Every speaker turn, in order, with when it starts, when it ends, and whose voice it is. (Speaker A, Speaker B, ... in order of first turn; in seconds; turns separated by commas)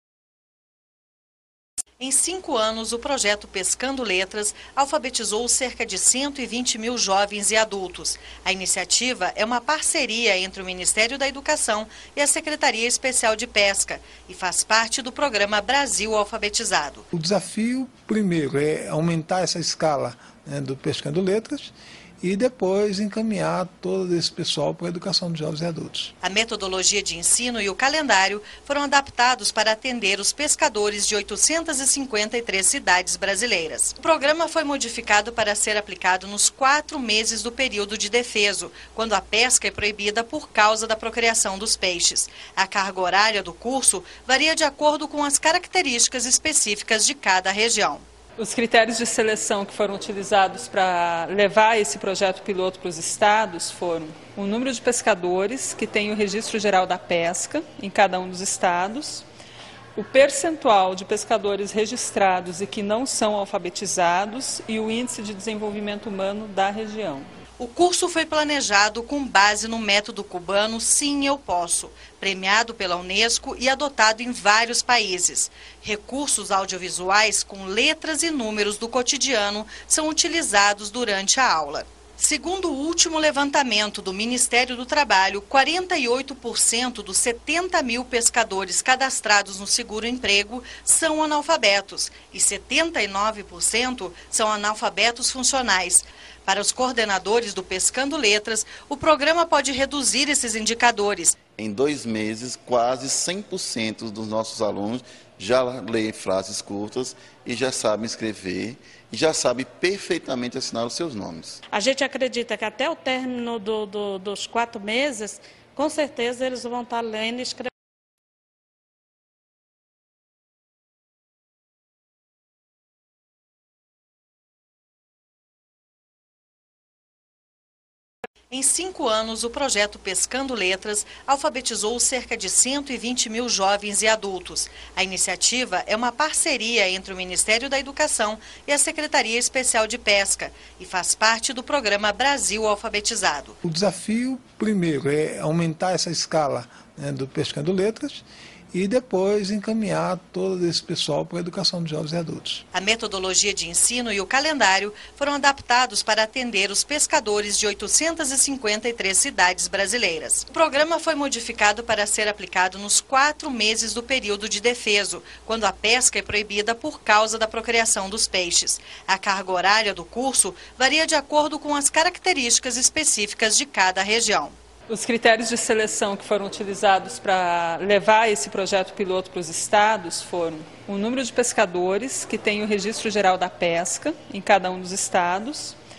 Speaker A: 2.0-17.1, Speaker B: 17.1-26.1, Speaker A: 26.2-48.0, Speaker C: 48.4-59.2, Speaker C: 60.0-67.3, Speaker A: 67.6-101.4, Speaker D: 101.6-111.6, Speaker E: 111.7-117.7, Speaker A: 128.5-143.6, Speaker B: 143.6-152.6, Speaker A: 152.7-174.6, Speaker C: 174.9-185.8